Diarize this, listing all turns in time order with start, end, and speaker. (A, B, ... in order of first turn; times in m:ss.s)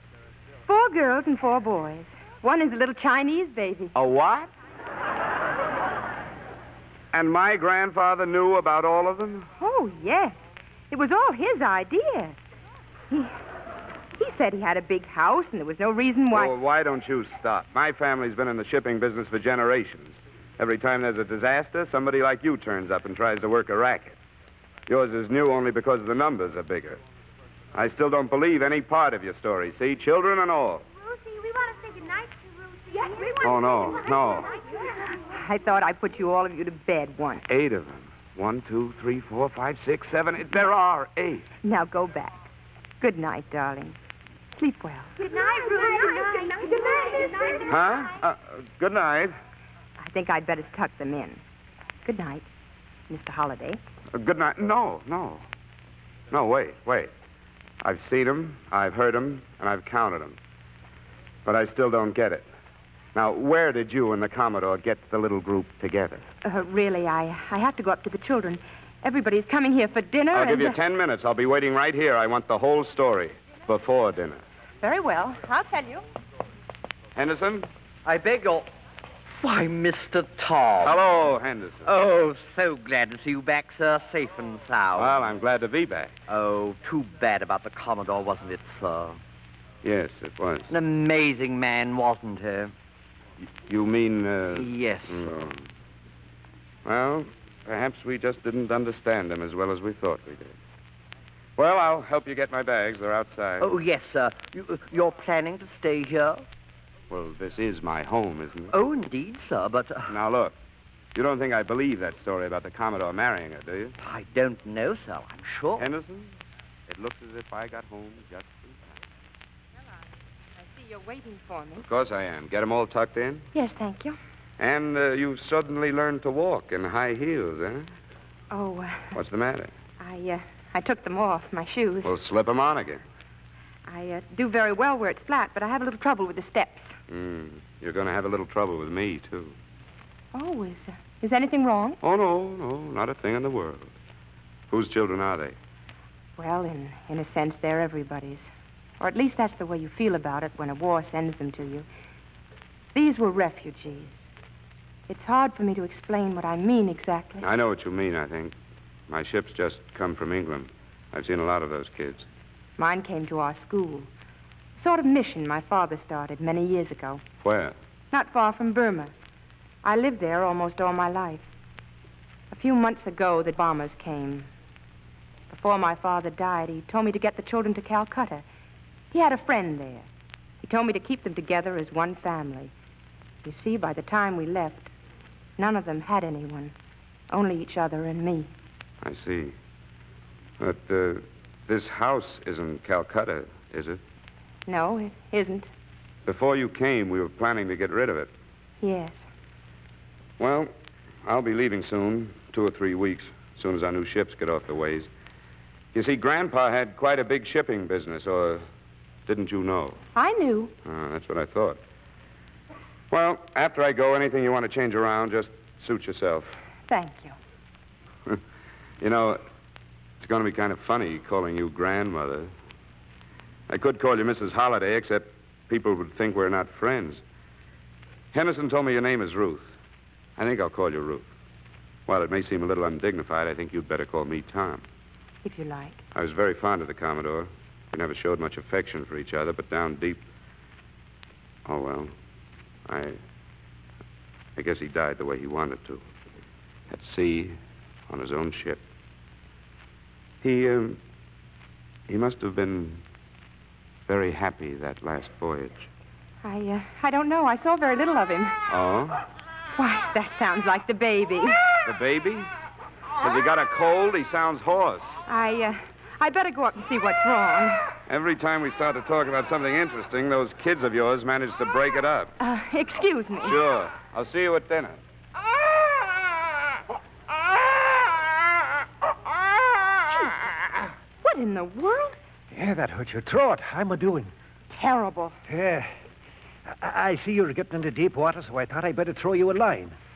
0:00.7-0:03.9 A
0:04.0-0:04.5 B
0:07.1-0:09.5 B
0:09.6-0:10.4 A
0:10.9-0:12.4 A
0:14.2-0:16.5 A
0:16.3-0:24.2 B
0:24.9-0:27.0 B
0:27.7-0:30.8 B
0:31.0-0:34.7 C
0:33.4-0:34.5 B
0:35.0-0:37.4 A
0:37.5-0:41.4 B
0:41.6-0:42.4 A
0:43.0-0:44.0 A
0:44.6-0:47.6 A
0:45.2-0:48.1 C
0:47.7-0:49.3 B
0:50.0-0:51.4 A
0:52.0-0:52.5 A
0:53.1-0:53.8 A
0:54.1-0:55.4 B
0:56.3-0:57.1 B
0:57.8-1:00.4 B
1:01.4-1:02.5 B
1:03.1-1:06.2 B
1:06.4-1:10.8 A
1:10.3-1:14.4 B
1:14.8-1:16.0 A
1:17.2-1:17.7 B
1:18.0-1:18.7 D
1:19.4-1:21.0 D
1:20.8-1:21.9 B
1:21.8-1:25.2 D
1:25.0-1:26.1 B
1:26.3-1:29.2 D
1:29.8-1:30.7 B
1:30.7-1:32.7 D
1:33.6-1:35.6 B
1:34.5-1:35.4 D
1:36.8-1:40.5 B
1:41.6-1:43.7 B
1:43.6-1:46.4 D
1:47.1-1:48.7 B
1:48.7-1:50.1 D
1:50.1-1:50.5 B
1:51.1-1:54.0 B
1:54.0-1:55.9 D
1:55.8-1:56.3 B
1:56.9-1:59.0 B
2:00.6-2:01.8 A
2:01.8-2:03.5 B
2:03.5-2:04.2 A
2:04.6-2:07.9 B
2:08.5-2:09.1 A
2:09.1-2:09.7 B
2:10.0-2:12.1 A
2:12.0-2:13.0 B
2:13.9-2:16.9 A
2:17.1-2:19.6 B
2:20.3-2:22.0 A
2:22.0-2:23.9 B
2:24.7-2:25.6 B
2:26.4-2:28.5 A
2:29.0-2:31.9 A
2:32.9-2:34.3 A
2:35.1-2:37.4 A
2:37.4-2:38.5 B
2:39.1-2:42.3 B
2:42.8-2:44.1 A
2:44.8-2:47.2 A
2:47.4-2:47.8 B
2:48.1-2:49.1 A
2:49.8-2:51.5 A
2:52.5-2:54.5 A
2:55.5-2:58.4 A
2:59.1-3:00.1 A
3:00.6-3:02.7 A
3:03.4-3:04.9 A
3:05.6-3:06.7 A
3:07.3-3:08.5 A
3:09.0-3:09.5 B
3:10.6-3:14.0 B
3:14.7-3:15.7 A
3:16.2-3:18.3 B
3:18.8-3:19.2 A
3:20.4-3:20.7 B
3:21.2-3:25.1 B
3:25.9-3:28.6 B
3:29.2-3:30.0 B
3:30.1-3:30.7 A
3:30.8-3:31.8 B
3:33.1-3:36.5 B
3:36.9-3:37.4 A
3:39.0-3:39.4 B
3:40.2-3:42.5 B
3:43.7-3:47.2 B
3:48.3-3:49.7 B
3:50.4-3:51.3 B
3:52.1-3:54.8 B
3:55.4-3:56.0 A
3:56.1-4:00.2 B
4:01.7-4:02.1 B
4:02.8-4:03.2 B
4:04.6-4:06.0 B
4:06.9-4:07.6 B
4:08.1-4:08.8 B
4:10.4-4:11.0 B
4:12.1-4:13.0 B
4:14.1-4:15.9 B
4:16.4-4:18.6 A
4:18.7-4:19.2 B
4:19.8-4:21.6 A
4:21.8-4:22.5 B
4:23.2-4:25.2 B
4:25.3-4:27.8 A
4:28.1-4:32.3 B
4:32.4-4:33.6 A
4:33.4-4:35.0 B
4:41.2-4:42.2 A
4:42.5-4:44.3 E
4:44.7-4:45.4 A
4:45.5-4:45.9 E
4:46.7-4:49.9 E